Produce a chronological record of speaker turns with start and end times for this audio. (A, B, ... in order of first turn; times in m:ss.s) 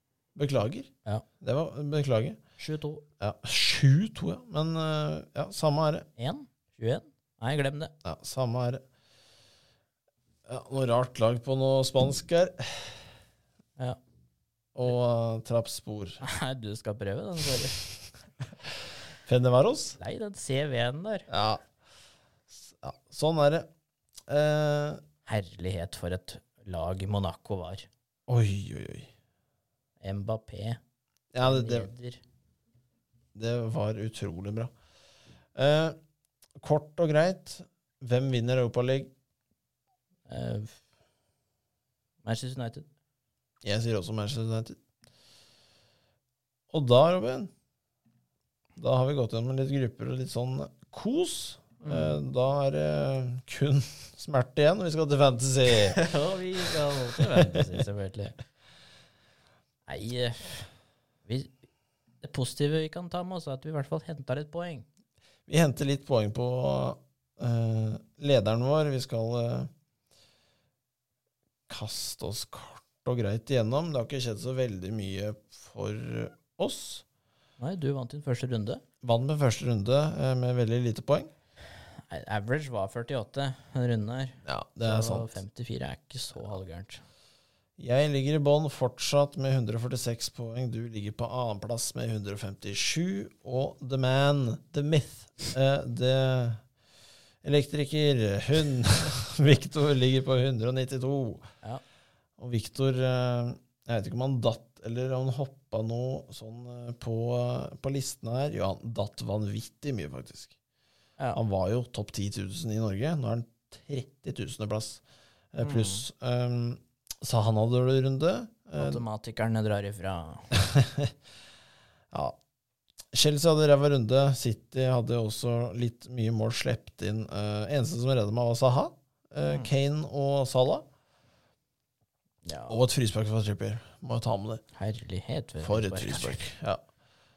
0:00.3-0:00.9 A
0:01.4-0:02.4 A
0:02.6-0:03.0 B
0:03.2-0:06.1 A
0:06.2-0:07.9 B
0:08.0-0:08.8 A
0:10.4-0:13.0 A
0:14.7-0:16.2 A
0:16.2-0:17.8 B
0:19.2-0:20.0 A
0:20.0-0:21.3 B
0:21.3-0:21.6 A
0:22.5-0:23.7 A
0:24.3-0:25.0 A
0:25.2-0:27.9 B
0:28.3-0:29.1 A
0:30.0-0:30.8 B
0:31.3-0:31.9 A
0:31.4-0:32.2 B
0:33.3-0:34.7 A
0:35.6-0:36.0 A
0:36.6-0:39.1 A
0:40.3-0:40.7 B
0:42.2-0:42.9 B
0:43.6-0:44.8 A
0:46.7-0:47.5 A
0:48.8-0:56.0 A
0:51.8-0:52.2 B
0:55.9-0:58.4 B
0:57.2-0:57.7 A
0:59.9-1:00.7 B
1:01.2-1:01.5 B
1:02.2-1:04.8 B
1:05.5-1:09.7 A
1:11.7-1:17.0 A
1:17.6-1:18.8 B
1:19.0-1:21.3 A
1:22.0-1:27.0 B
1:24.4-1:25.4 A
1:27.8-1:36.6 A
1:37.4-1:41.5 A
1:42.4-1:50.5 A
1:51.3-1:55.0 A
1:55.5-1:59.0 A
1:55.6-1:56.0 B
1:58.8-2:00.5 B
2:00.5-2:01.1 A
2:02.1-2:02.4 A
2:03.1-2:10.8 A
2:09.4-2:09.7 B
2:12.4-2:12.8 B
2:12.7-2:14.6 A
2:14.8-2:16.4 B
2:15.6-2:16.8 A